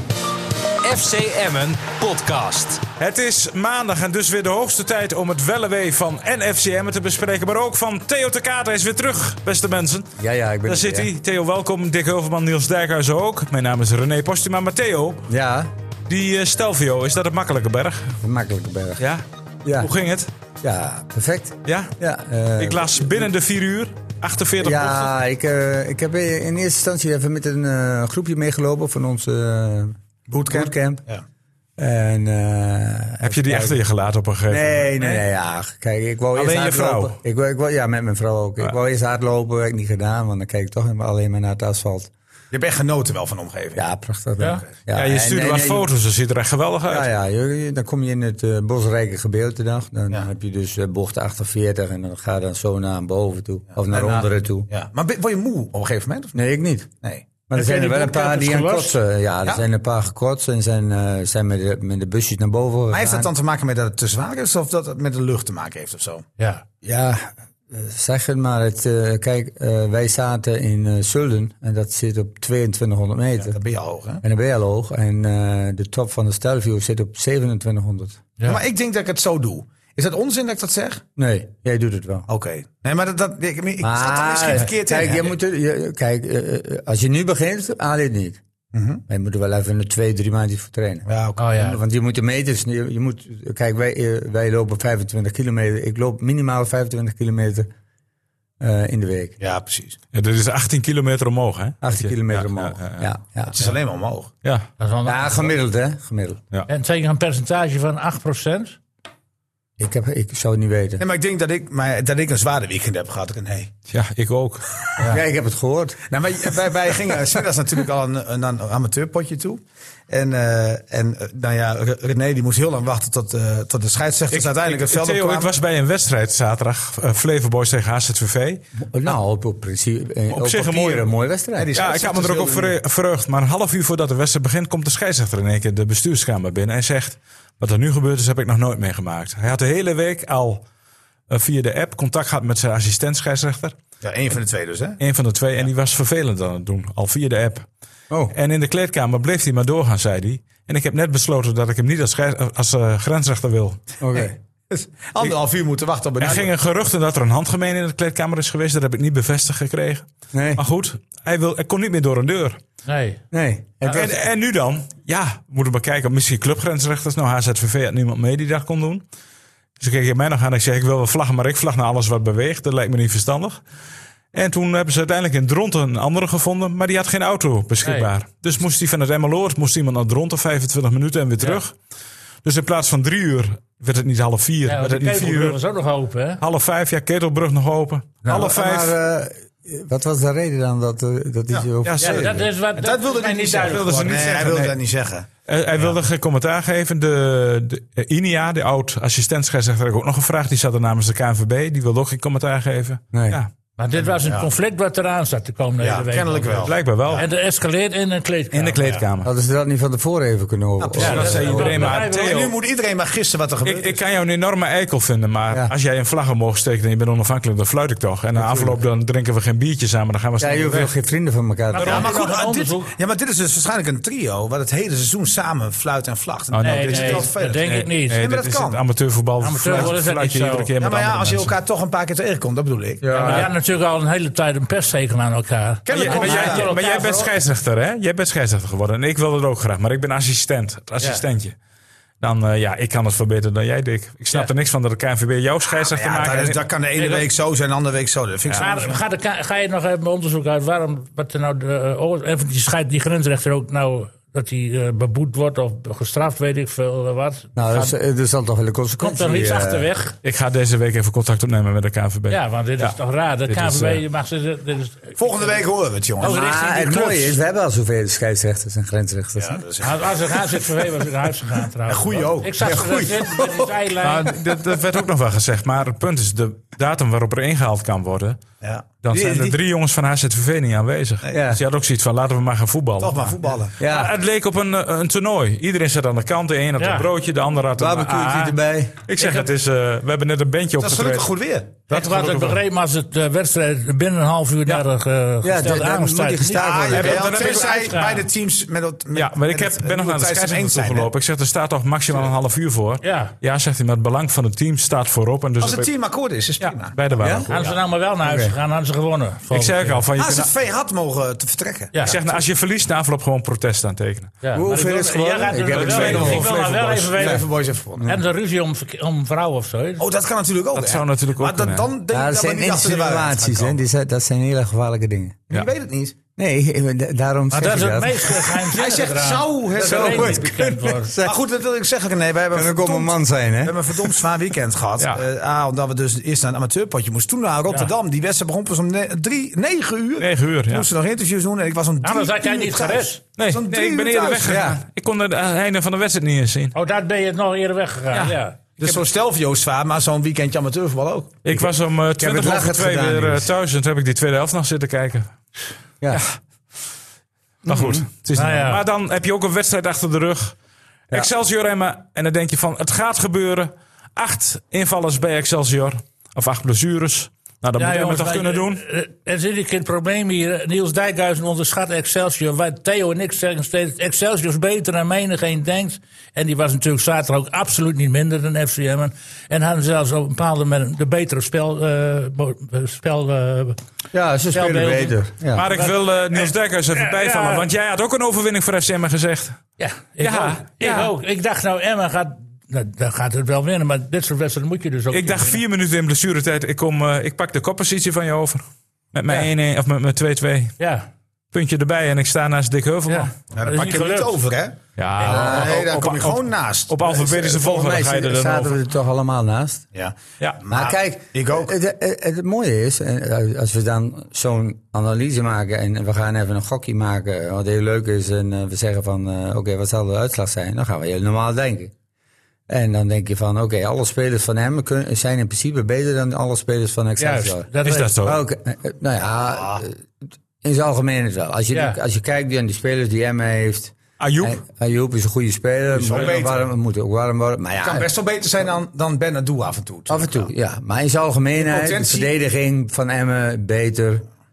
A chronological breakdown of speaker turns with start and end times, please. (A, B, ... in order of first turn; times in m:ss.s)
0:00.8-0:02.8 A
0:03.0-0:10.1 B
0:10.2-0:11.1 C
0:10.6-0:15.3 B
0:15.3-0:15.7 C
0:16.1-0:18.2 B
0:18.2-0:19.0 C
0:19.0-0:20.3 B
0:19.6-0:19.9 C
0:20.6-0:23.0 C
0:21.6-0:21.9 B
0:22.6-0:25.1 B
0:24.6-0:31.0 C
0:30.3-0:31.2 D
0:31.8-0:33.8 C
0:33.2-0:35.2 B
0:34.5-0:42.1 C
0:36.3-0:37.1 B
0:42.5-0:43.8 D
0:43.7-0:45.9 C
0:44.4-0:44.6 E
0:44.9-0:47.1 B
0:46.9-0:54.7 C
0:53.9-0:56.4 D
0:56.3-0:56.9 C
0:57.5-1:03.3 C
0:57.5-0:59.0 E
1:02.9-1:06.2 D
1:06.8-1:13.6 C
1:13.4-1:14.2 D
1:14.2-1:18.2 C
1:18.4-1:21.0 D
1:21.2-1:22.3 C
1:22.3-1:25.3 D
1:23.8-1:28.4 C
1:28.7-1:29.0 D
1:29.1-1:37.7 C
1:31.0-1:31.4 D
1:31.4-1:31.8 E
1:38.6-1:39.4 C
1:39.4-1:40.0 D
1:40.1-1:43.0 B
1:41.8-1:43.5 C
1:43.5-1:44.3 D
1:44.8-1:45.5 E
1:45.0-1:46.4 C
1:46.7-1:48.8 E
1:49.8-1:51.0 C
1:51.0-1:53.7 D
1:53.9-1:54.7 B
1:55.0-1:56.0 C
1:56.1-2:05.5 D
2:04.3-2:08.6 B
2:08.8-2:11.7 C
2:10.3-2:11.0 B
2:11.6-2:12.7 D
2:11.7-2:20.6 B
2:21.3-2:23.7 B
2:24.0-2:25.0 D
2:25.0-2:27.6 B
2:28.1-2:28.3 C
2:28.3-2:33.8 B
2:34.0-2:34.4 C
2:34.7-2:36.5 D
2:36.2-2:42.6 B
2:40.3-2:40.6 C
2:42.8-2:43.2 E
2:43.3-2:44.2 C
2:43.9-2:49.0 B
2:49.8-2:53.6 B
2:54.3-3:01.7 B
2:57.8-2:58.1 E
3:02.4-3:05.6 B
3:04.6-3:06.4 E
3:06.4-3:08.9 B
3:08.3-3:12.5 C
3:11.8-3:12.4 B
3:12.0-3:14.5 E
3:12.8-3:15.3 D
3:13.6-3:14.8 B
3:15.4-3:23.5 B
3:23.1-3:23.4 C
3:23.8-3:28.9 E
3:24.0-3:24.5 D
3:25.8-3:27.3 D
3:26.6-3:27.2 B
3:28.5-3:29.3 B
3:29.2-3:31.7 C
3:30.8-3:34.0 D
3:31.0-3:32.5 B
3:31.0-3:32.5 E
3:33.6-3:40.9 B
3:38.4-3:38.7 C
3:40.4-3:42.1 C
3:41.7-3:42.9 E
3:41.8-3:47.6 D
3:46.5-3:51.6 B
3:46.6-3:48.2 E
3:48.2-3:48.8 D
3:49.4-3:50.7 E
3:50.8-3:53.0 D
3:53.0-3:53.5 C
3:53.2-3:57.3 E
3:53.2-3:53.4 B
3:55.8-3:56.7 D
3:56.0-4:01.5 B
4:02.2-4:07.2 B
4:05.7-4:09.0 D
4:08.6-4:17.9 E
4:17.6-4:19.9 C
4:19.0-4:20.1 E
4:20.2-4:23.0 B
4:22.3-4:25.6 E
4:23.5-4:24.0 B
4:25.2-4:26.4 D
4:26.2-4:27.4 E
4:26.2-4:29.6 C
4:29.4-4:30.6 D
4:29.8-4:34.3 E
4:31.9-4:33.7 D
4:34.0-4:38.4 B
4:38.6-4:39.6 D
4:39.0-4:51.3 B
4:41.3-4:41.6 C
4:43.0-4:43.7 D
4:43.8-4:44.1 C
4:46.8-4:47.1 E
4:47.8-4:49.0 C
4:50.8-4:51.7 D
4:51.9-4:52.6 B
4:51.9-4:56.9 E
4:55.4-4:57.4 C
4:56.6-5:01.1 D
4:56.9-4:58.0 B
4:57.4-4:58.2 E
4:59.1-5:05.9 B
5:03.0-5:03.3 E
5:05.6-5:07.0 D
5:06.6-5:07.6 B
5:07.2-5:07.4 C
5:07.5-5:10.0 E
5:08.2-5:08.5 C
5:09.5-5:10.5 B
5:10.2-5:12.2 D
5:12.0-5:14.3 B
5:14.4-5:17.5 E
5:14.5-5:16.8 C
5:14.7-5:18.2 D
5:15.7-5:16.9 B
5:18.0-5:20.0 E
5:20.0-5:23.8 D
5:20.7-5:21.9 B
5:22.1-5:25.4 C
5:25.5-5:26.2 D
5:26.4-5:28.5 C
5:27.5-5:31.1 E
5:28.6-5:44.6 D
5:29.8-5:31.4 C
5:32.5-5:34.1 C
5:40.2-5:40.9 B
5:42.0-5:43.2 E
5:43.4-5:46.7 B
5:44.4-5:44.8 C
5:46.7-5:48.6 E
5:48.1-5:49.0 B
5:48.8-5:51.4 D
5:51.4-5:55.3 B
5:51.5-5:53.5 C
5:57.6-6:00.6 B
5:57.6-5:58.0 C
5:58.3-5:58.8 E
6:01.1-6:08.8 B
6:07.8-6:23.8 E
6:24.1-6:25.6 C
6:24.5-6:27.7 E
6:25.5-6:29.6 B
6:29.8-6:35.6 E
6:30.2-6:31.1 B
6:35.1-6:40.8 B
6:40.8-6:41.1 E
6:41.5-6:43.3 B
6:43.1-6:44.4 E
6:43.6-6:47.0 D
6:45.0-6:48.7 B
6:45.2-6:45.5 E
6:45.2-6:45.8 C
6:47.0-6:49.8 C
6:49.9-6:51.7 D
6:50.7-7:01.9 C
7:02.7-7:07.6 C
7:07.2-7:08.1 E
7:07.8-7:08.4 B
7:08.2-7:10.0 C
7:09.5-7:09.8 D
7:10.6-7:18.1 C
7:11.7-7:12.0 E
7:14.2-7:14.6 B
7:15.9-7:16.6 D
7:17.8-7:20.5 D
7:20.1-7:24.2 C
7:21.6-7:22.3 D